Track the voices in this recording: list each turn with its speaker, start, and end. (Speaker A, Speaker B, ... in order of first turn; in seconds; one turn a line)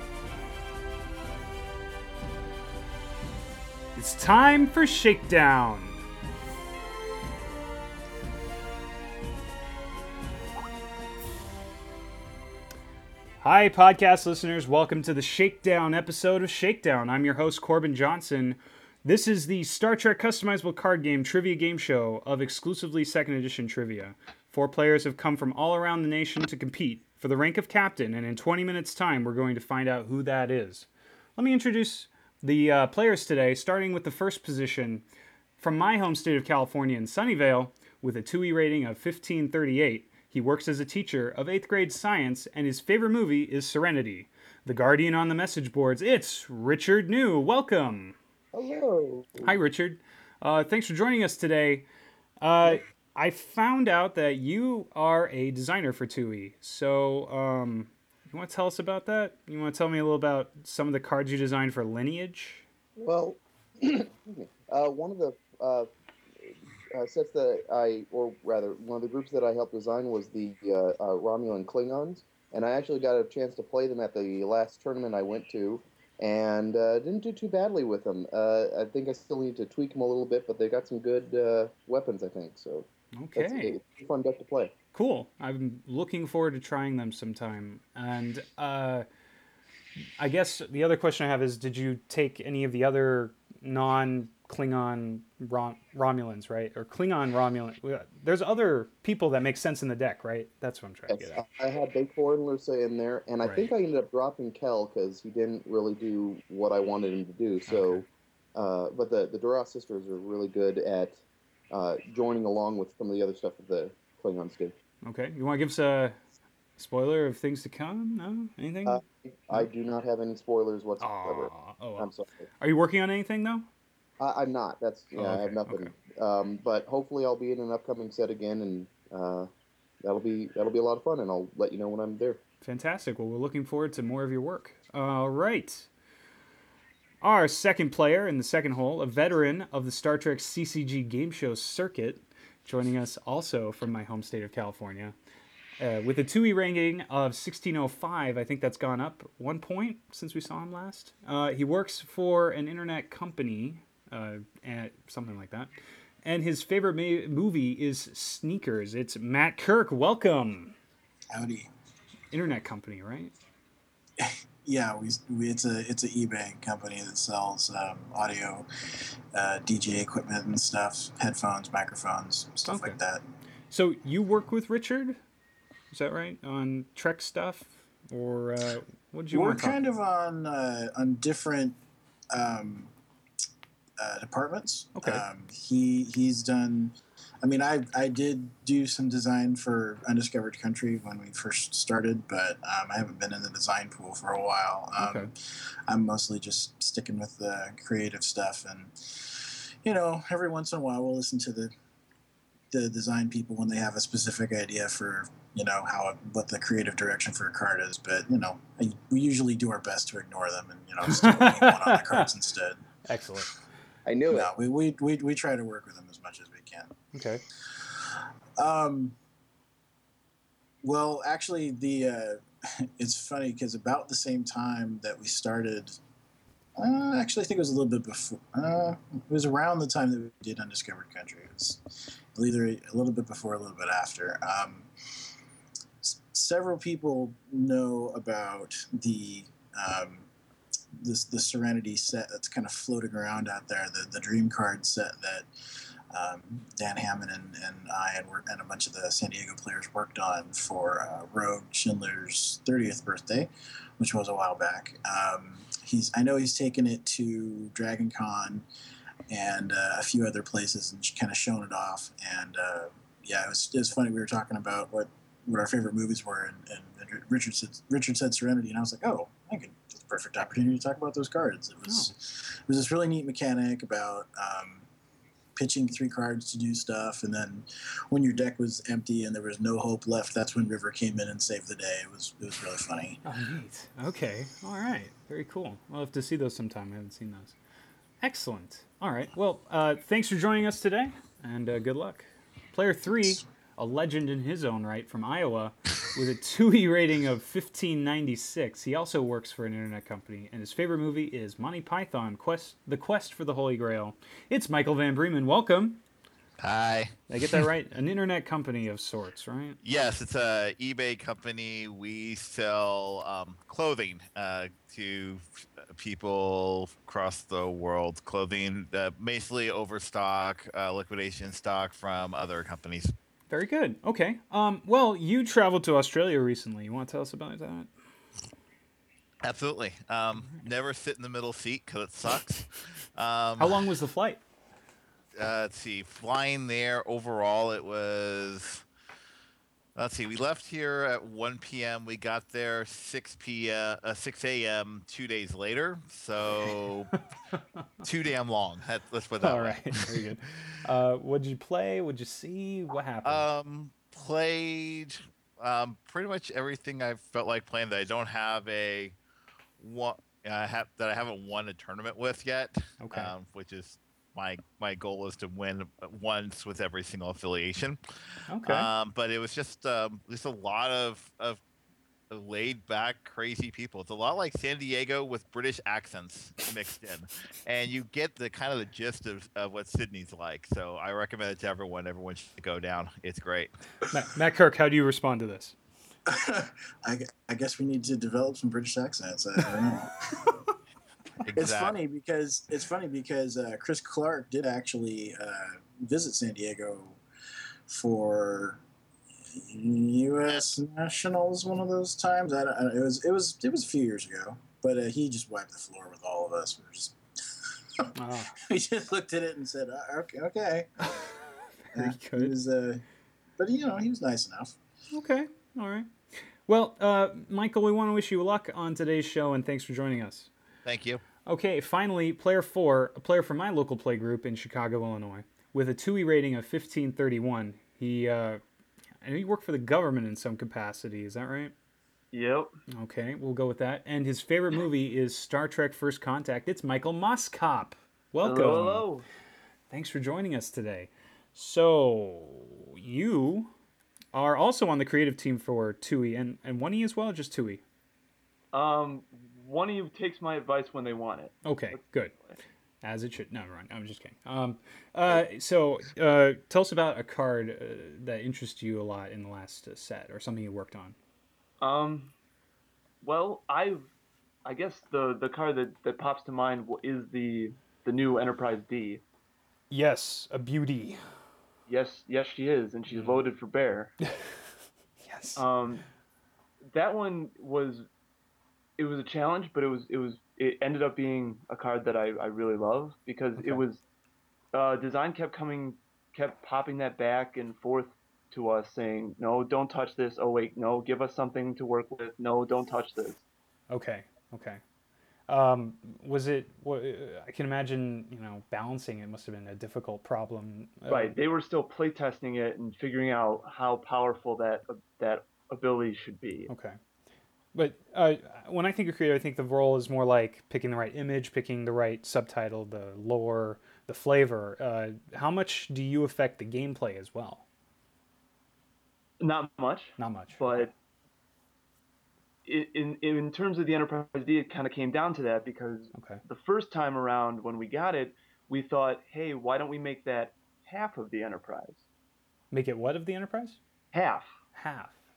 Speaker A: 4.0-6.0
Speaker A: 13.4-35.0
Speaker A: 35.6-48.2
Speaker B: 48.5-49.5
Speaker A: 49.4-51.9
Speaker A: 52.4-62.6
Speaker B: 63.0-65.9
Speaker B: 66.4-84.7
Speaker A: 83.2-83.8
Speaker A: 84.9-89.1
Speaker A: 90.2-101.4
Speaker B: 101.1-111.2
Speaker A: 103.4-103.7
Speaker A: 107.7-108.0
Speaker B: 111.7-114.7
Speaker A: 115.0-116.2
Speaker A: 116.8-119.7
Speaker B: 118.9-122.5
Speaker A: 121.0-123.7
Speaker B: 124.2-129.5
Speaker A: 125.1-125.9
Speaker B: 130.0-132.4
Speaker A: 132.6-135.9
Speaker A: 137.2-145.1
Speaker A: 145.8-155.7
Speaker A: 156.2-160.8
Speaker C: 161.3-161.7
Speaker A: 162.3-163.3
Speaker C: 164.2-168.7
Speaker C: 169.3-173.2
Speaker A: 172.6-173.0
Speaker A: 173.7-175.2
Speaker A: 175.9-179.8
Speaker C: 179.3-181.8
Speaker C: 182.3-182.9
Speaker C: 184.0-201.7
Speaker A: 184.9-185.2
Speaker A: 195.0-195.3
Speaker C: 202.7-212.8
Speaker A: 211.0-212.3
Speaker A: 213.1-213.5
Speaker B: 214.1-214.5
Speaker C: 214.3-216.9
Speaker A: 217.1-217.4
Speaker C: 217.8-219.2
Speaker C: 220.8-226.0
Speaker C: 226.8-231.8
Speaker C: 232.3-234.9
Speaker C: 236.0-240.3
Speaker C: 240.9-245.5
Speaker C: 246.1-258.6
Speaker C: 259.3-274.9
Speaker C: 275.6-283.2
Speaker A: 283.2-287.6
Speaker A: 288.2-306.0
Speaker D: 306.6-307.6
Speaker A: 307.3-309.8
Speaker D: 309.8-323.1
Speaker A: 323.5-327.9
Speaker D: 329.4-333.9
Speaker A: 330.4-330.6
Speaker A: 333.6-334.4
Speaker D: 335.4-338.8
Speaker D: 339.9-347.1
Speaker D: 348.0-350.2
Speaker A: 349.4-353.5
Speaker D: 353.2-359.1
Speaker D: 359.8-368.0
Speaker A: 363.0-363.3
Speaker A: 368.5-368.9
Speaker D: 368.6-371.6
Speaker D: 372.3-383.7
Speaker A: 384.1-385.8
Speaker C: 386.3-390.6
Speaker D: 391.4-391.9
Speaker C: 391.6-397.2
Speaker C: 397.9-398.8
Speaker C: 399.5-407.1
Speaker A: 408.1-408.6
Speaker C: 408.6-411.1
Speaker A: 411.9-412.6
Speaker C: 411.9-413.0
Speaker C: 413.6-414.8
Speaker A: 415.1-416.1
Speaker A: 416.7-420.5
Speaker D: 420.8-421.2
Speaker A: 421.4-428.6
Speaker A: 429.2-431.7
Speaker E: 432.3-432.7
Speaker A: 432.9-439.1
Speaker E: 438.4-439.2
Speaker A: 439.9-443.7
Speaker A: 444.3-447.8
Speaker E: 448.7-452.6
Speaker A: 451.6-452.3
Speaker A: 453.0-461.1
Speaker E: 461.8-462.3
Speaker E: 463.2-464.1
Speaker E: 464.6-469.2
Speaker A: 469.9-471.2
Speaker E: 471.9-474.1
Speaker A: 473.1-473.4
Speaker A: 475.2-475.6
Speaker E: 475.6-476.0
Speaker E: 476.9-478.1
Speaker E: 479.0-484.0
Speaker A: 483.6-483.8
Speaker E: 484.7-493.4
Speaker A: 493.9-494.8
Speaker A: 495.5-501.4
Speaker E: 501.1-506.7
Speaker A: 506.7-507.0
Speaker A: 507.8-517.6
Speaker E: 519.4-520.9
Speaker A: 520.2-520.9
Speaker E: 522.6-532.0
Speaker A: 526.1-526.4
Speaker A: 532.7-533.8
Speaker E: 534.1-534.5
Speaker A: 534.7-535.1